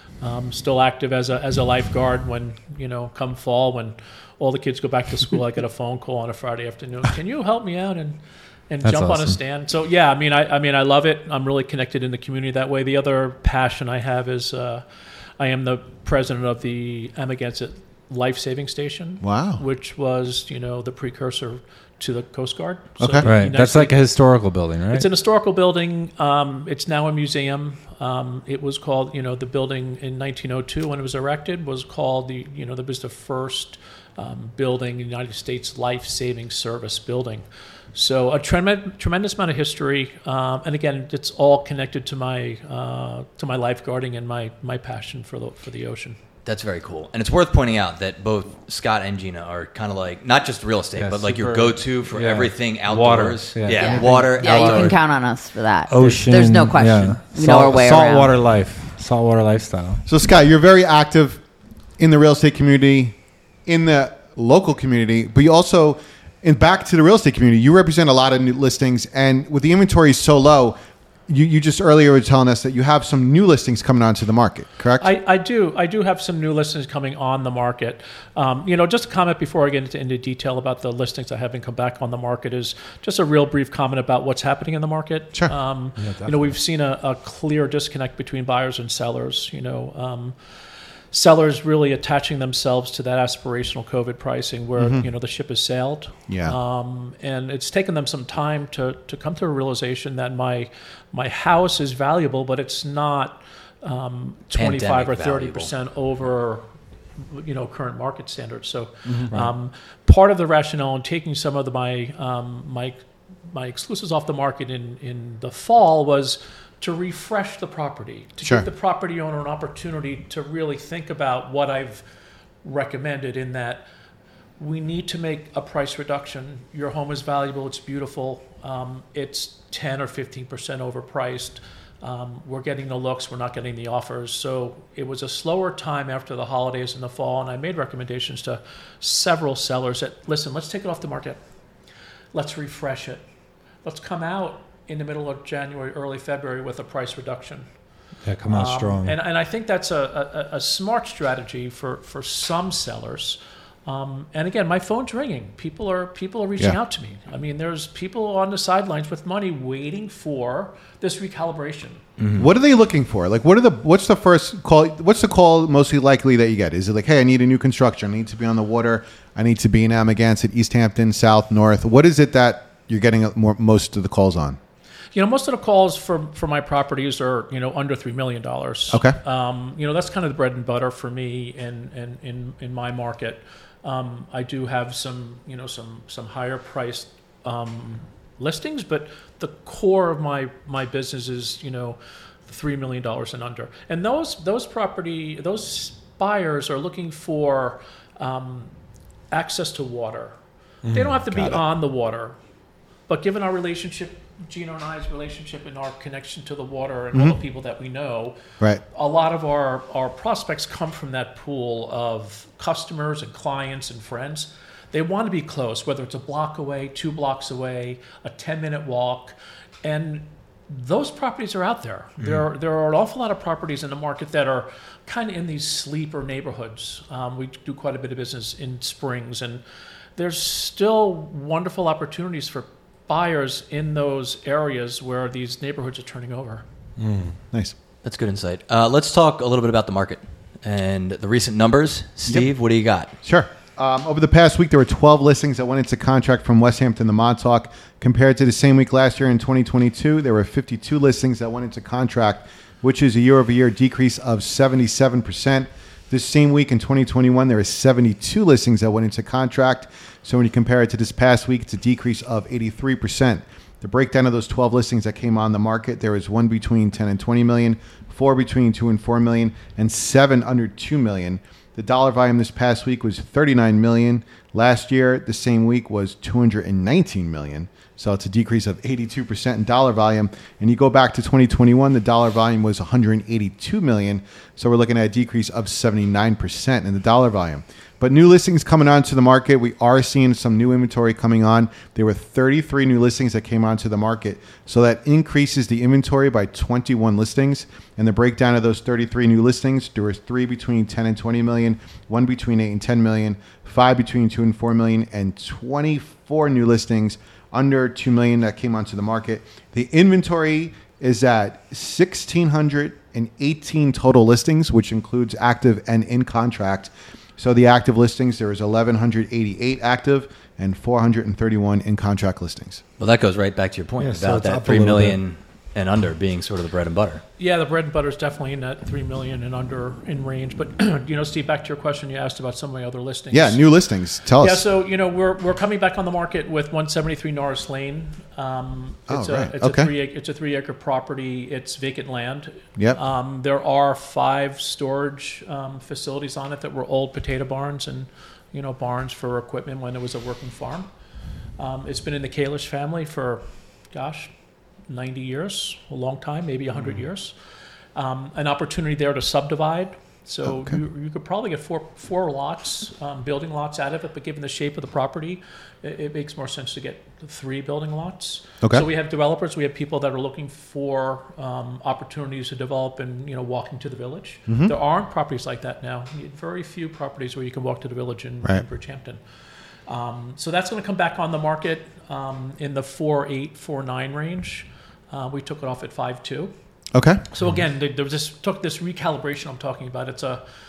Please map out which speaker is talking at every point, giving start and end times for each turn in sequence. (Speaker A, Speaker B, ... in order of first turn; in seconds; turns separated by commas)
Speaker A: 0.2-14.8, Speaker B: 8.8-9.4, Speaker A: 15.4-24.1, Speaker C: 19.2-19.6, Speaker C: 23.0-23.3, Speaker B: 23.2-25.1, Speaker A: 24.9-46.2, Speaker D: 46.5-55.0, Speaker B: 51.0-55.0, Speaker E: 53.7-58.3, Speaker C: 53.9-54.3, Speaker B: 55.9-60.0, Speaker C: 60.1-61.4, Speaker C: 62.0-75.1, Speaker A: 75.0-90.4, Speaker B: 86.0-86.6, Speaker A: 91.1-106.7, Speaker C: 94.8-95.1, Speaker C: 96.3-96.6, Speaker D: 104.5-105.7, Speaker A: 107.2-122.0, Speaker C: 109.1-109.4, Speaker A: 122.6-123.9, Speaker A: 124.6-141.4, Speaker A: 142.3-143.2, Speaker A: 143.8-147.7, Speaker B: 148.2-149.2, Speaker A: 148.5-162.0, Speaker D: 162.2-162.5, Speaker C: 162.4-174.6, Speaker A: 175.1-198.7, Speaker C: 178.9-179.2, Speaker A: 199.3-202.4, Speaker B: 200.8-201.2, Speaker C: 201.3-201.6, Speaker A: 203.1-229.6, Speaker A: 230.2-236.6, Speaker B: 237.0-237.4, Speaker D: 238.0-243.2, Speaker C: 243.2-322.8, Speaker D: 323.0-327.2, Speaker B: 324.0-325.2, Speaker A: 327.4-333.6, Speaker C: 333.3-334.6, Speaker A: 334.4-350.9, Speaker C: 339.1-339.9, Speaker A: 351.6-354.3, Speaker A: 354.9-357.4, Speaker A: 357.9-379.2, Speaker C: 360.4-360.8, Speaker C: 374.5-374.7, Speaker A: 379.9-386.5, Speaker C: 386.9-387.2, Speaker A: 387.3-390.4